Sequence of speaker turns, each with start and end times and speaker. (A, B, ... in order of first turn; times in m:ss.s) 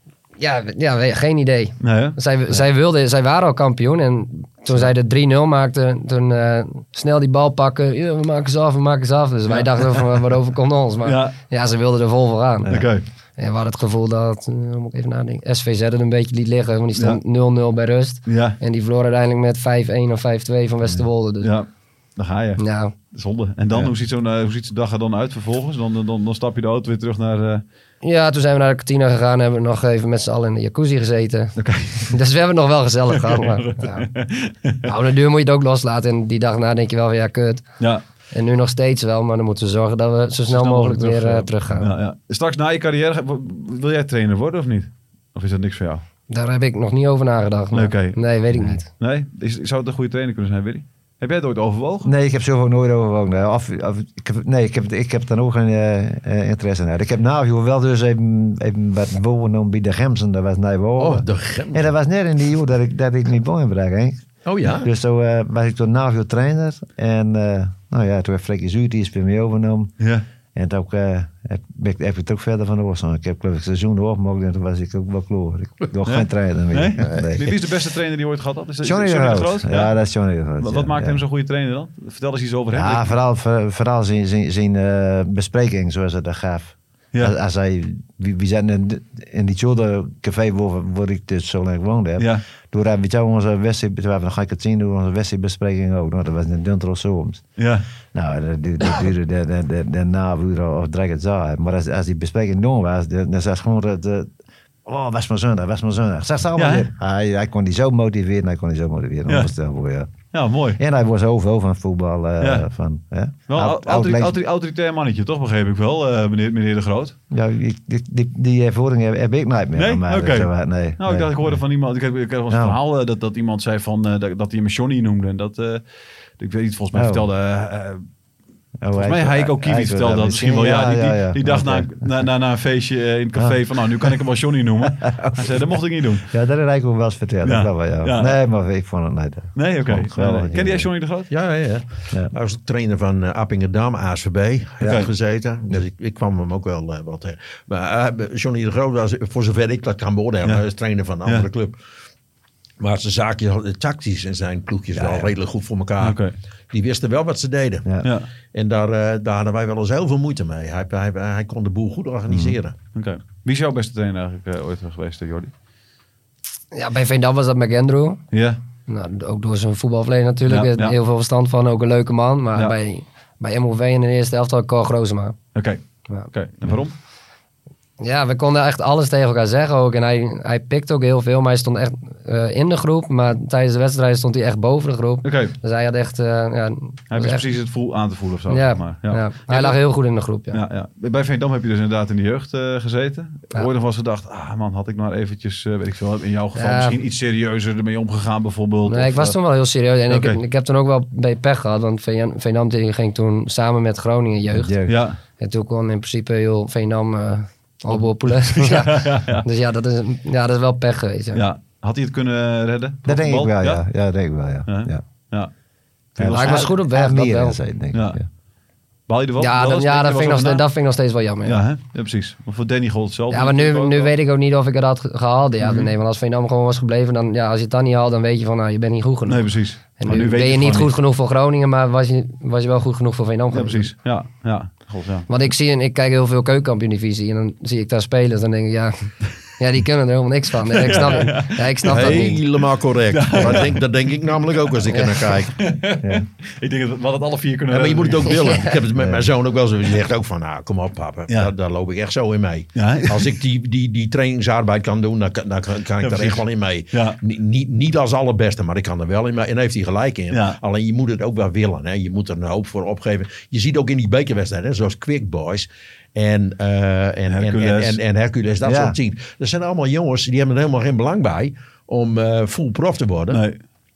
0:00.4-0:21.5 A
0:01.8-0:02.2 B
0:09.5-0:10.0 B
0:11.0-0:11.4 B
0:12.7-0:13.0 B
0:16.9-0:17.2 B
0:18.3-0:18.6 B
0:21.4-0:27.6 B
0:22.6-0:22.9 A
0:28.0-0:34.1 A
0:31.6-0:32.2 B
0:33.1-0:35.0 B
0:34.8-0:37.6 A
0:38.3-0:41.9 A
0:40.5-0:46.0 B
0:46.3-0:48.9 A
0:47.7-0:48.2 B
0:48.5-0:48.8 C
0:48.9-0:52.1 B
0:52.0-1:09.9 C
1:01.0-1:01.9 D
1:04.4-1:04.9 D
1:10.0-1:10.2 B
1:10.5-1:17.5 C
1:16.0-1:19.9 B
1:18.8-1:21.2 C
1:20.6-1:23.1 B
1:22.7-1:37.4 C
1:32.2-1:32.4 B
1:37.6-1:37.8 B
1:38.1-1:44.3 C
1:44.8-1:50.1 C
1:46.6-1:46.9 B
1:50.3-1:50.8 B
1:50.8-1:54.4 C
1:52.4-1:52.6 B
1:53.5-1:57.2 B
1:57.3-2:01.6 C
1:59.7-2:05.8 B
2:02.5-2:02.8 C
2:06.4-2:08.0 B
2:06.9-2:07.2 C
2:08.8-2:12.3 C
2:08.9-2:16.3 B
2:13.4-2:14.1 C
2:15.0-2:15.4 C
2:16.3-2:20.9 C
2:17.4-2:18.4 B
2:19.5-2:21.3 B
2:21.3-2:31.8 D
2:24.8-2:25.1 B
2:32.8-2:36.2 D
2:35.0-2:35.3 C
2:36.0-2:36.3 B
2:36.7-2:37.9 D
2:37.8-2:38.1 C
2:38.0-2:38.3 B
2:38.5-2:42.7 D
2:42.3-2:42.5 C
2:42.9-2:45.5 B
2:46.7-2:48.2 A
2:48.3-2:48.6 B
2:48.9-2:55.4 A
2:50.4-2:51.0 B
2:55.5-2:56.9 B
2:58.0-3:07.4 A
3:05.2-3:05.5 B
3:07.1-3:09.8 B
3:08.5-3:10.6 A
3:10.5-3:19.4 B
3:16.6-3:17.0 A
3:18.8-3:24.7 A
3:20.1-3:20.4 B
3:24.5-3:25.0 C
3:24.8-3:25.2 B
3:25.4-3:31.4 A
3:27.9-3:29.4 B
3:31.3-3:33.8 B
3:33.0-3:35.0 C
3:34.7-3:35.5 B
3:36.1-3:36.8 B
3:36.2-3:38.2 C
3:36.3-3:37.6 A
3:37.9-3:38.2 B
3:39.1-3:40.7 B
3:39.4-3:41.6 A
3:41.4-3:44.1 B
3:43.3-3:53.9 A
3:45.6-3:45.9 B
3:49.2-3:50.9 B
3:53.5-3:55.3 B
3:55.3-4:02.4 A
4:00.6-4:02.4 B
4:01.8-4:05.6 D
4:03.1-4:03.9 B
4:05.6-4:08.6 B
4:07.7-4:33.4 D
4:08.2-4:08.8 A
4:09.0-4:09.2 C
4:12.8-4:13.3 B
4:16.0-4:17.2 B
4:20.3-4:20.6 B
4:27.3-4:28.0 B
4:28.6-4:29.0 C
4:33.3-4:33.6 B